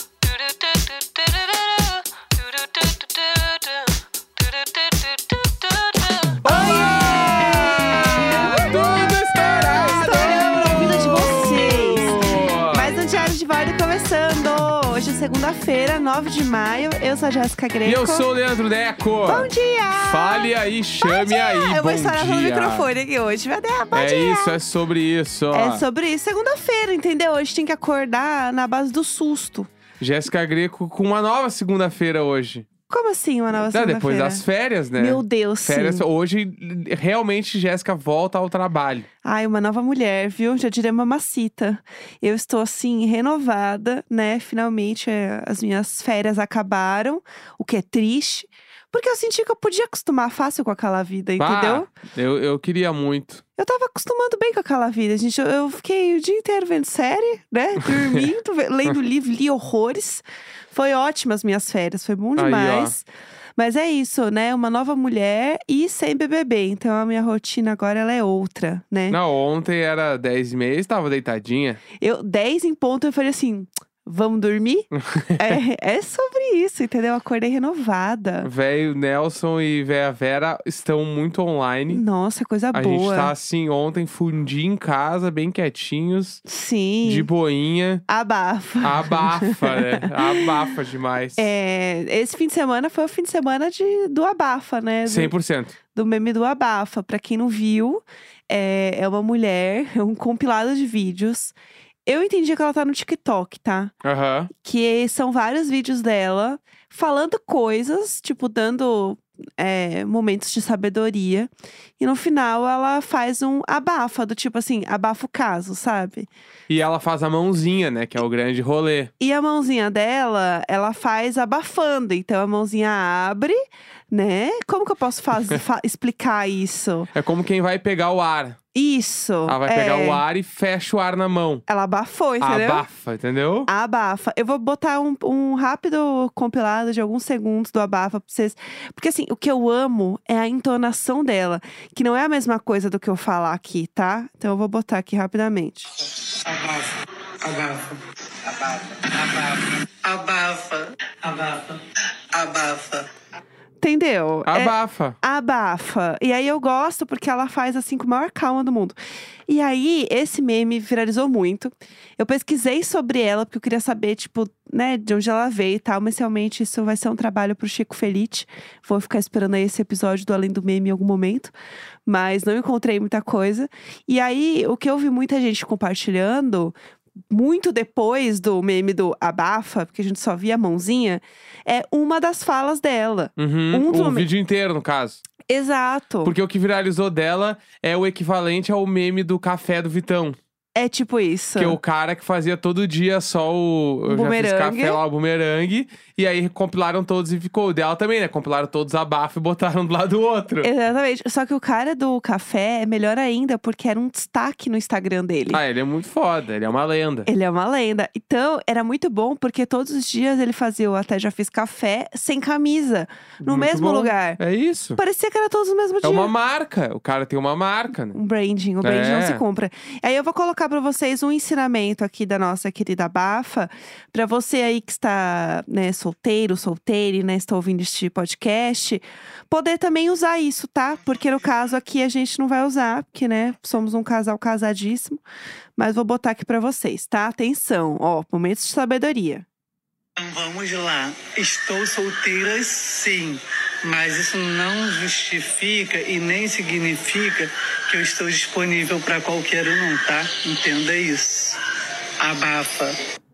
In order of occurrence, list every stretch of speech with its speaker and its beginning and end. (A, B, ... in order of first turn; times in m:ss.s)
0:00.3-0:06.4 A
0:06.4-0:12.9 B
0:06.5-0:09.1 C
0:09.7-0:18.3 C
0:17.8-0:22.9 B
0:19.3-0:24.6 C
0:23.9-0:25.8 B
0:25.5-0:29.7 C
0:30.0-0:32.7 B
0:32.9-0:34.4 C
0:33.7-0:39.1 B
0:35.0-0:36.1 C
0:39.2-0:51.9 C
0:51.4-0:53.4 B
0:53.6-1:09.2 C
1:02.4-1:03.0 B
1:09.1-1:11.8 B
1:12.0-1:18.5 C
1:15.0-1:15.6 B
1:18.4-1:22.0 B
1:21.9-1:23.3 C
1:22.7-1:26.4 B
1:26.5-1:27.3 C
1:27.0-1:28.0 B
1:28.1-1:30.5 C
1:28.8-1:31.5 B
1:31.4-1:35.3 C
1:35.1-1:35.8 B
1:35.9-1:41.6 C
1:42.1-1:43.9 C
1:44.0-1:44.5 B
1:44.5-1:56.3 C
1:56.7-1:59.1 B
1:59.2-2:03.6 C
2:04.1-2:07.1 C
2:07.1-2:08.6 B
2:08.7-2:10.2 C
2:09.5-2:11.6 B
2:11.7-2:12.8 C
2:12.4-2:13.7 B
2:13.7-2:25.9 C
2:26.2-2:33.1 A
2:33.8-2:39.0 C
2:34.5-2:35.2 B
2:39.5-2:51.5 C
2:52.1-2:56.8 C
2:57.3-3:04.3 C
3:03.4-3:05.2 B
3:05.5-3:06.3 C
3:06.2-3:10.4 B
3:10.8-3:11.8 C
3:11.6-3:20.7 B
3:14.1-3:15.0 C
3:20.6-3:25.6 C
3:25.5-3:27.3 B
3:27.3-3:34.4 C
3:33.4-3:35.0 B
3:35.0-3:36.3 C
3:36.0-3:38.2 B
3:38.1-3:55.2 C
3:38.8-3:39.4 B
3:55.8-3:59.4 C
4:00.2-4:11.6 A
4:12.2-4:13.0 A